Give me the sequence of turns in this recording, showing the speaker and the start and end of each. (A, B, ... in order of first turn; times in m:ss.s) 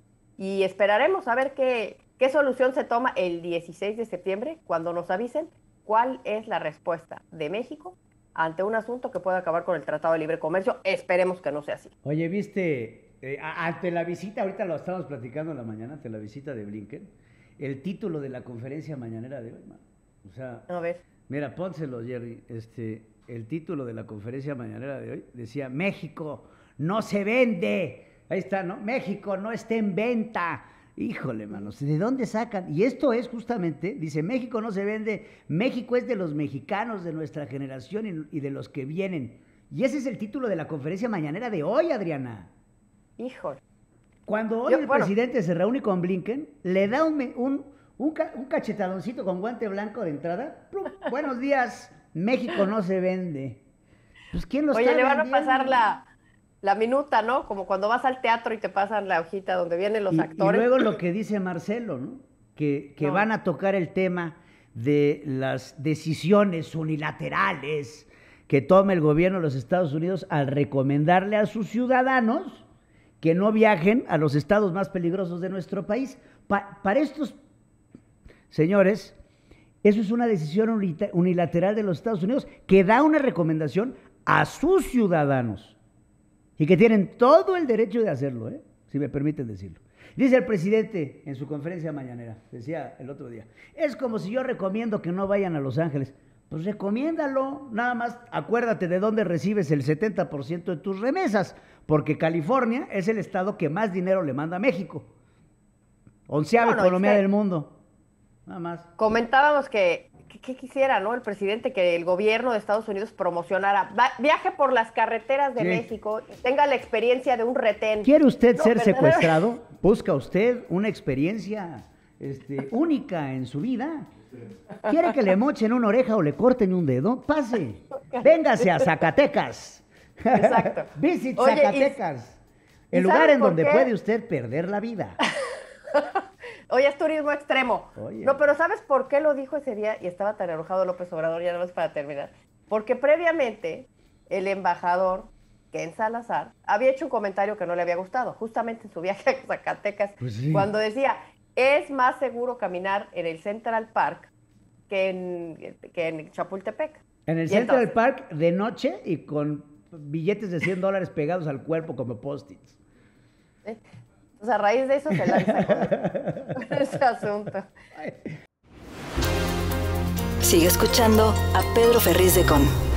0:00.4-0:11.9 A
0:12.0-0:20.7 B
0:20.7-0:21.0 A
0:21.3-0:42.5 B
0:43.2-0:43.6 A
0:44.3-0:53.6 B
0:44.7-0:45.1 A
0:54.3-0:55.9 B
0:54.7-0:56.1 A
0:56.6-1:00.7 A
1:00.1-1:12.6 B
1:03.0-1:03.3 A
1:13.2-1:17.4 B
1:18.5-1:19.2 B
1:19.8-1:25.8 B
1:26.6-1:45.1 B
1:46.3-1:47.8 B
1:46.6-1:47.2 A
1:48.5-1:48.9 B
1:49.0-1:59.4 A
1:55.6-1:55.9 B
1:58.0-2:04.1 B
2:04.9-2:15.2 B
2:08.1-2:08.9 A
2:10.3-2:12.0 A
2:12.9-2:13.9 A
2:15.4-2:34.3 A
2:18.0-2:18.5 B
2:30.2-2:30.7 B
2:34.9-2:38.0 A
2:37.3-2:42.8 B
2:44.4-2:46.0 A
2:45.3-2:46.5 B
2:46.6-2:47.7 A
2:48.0-2:48.2 B
2:50.4-2:52.7 C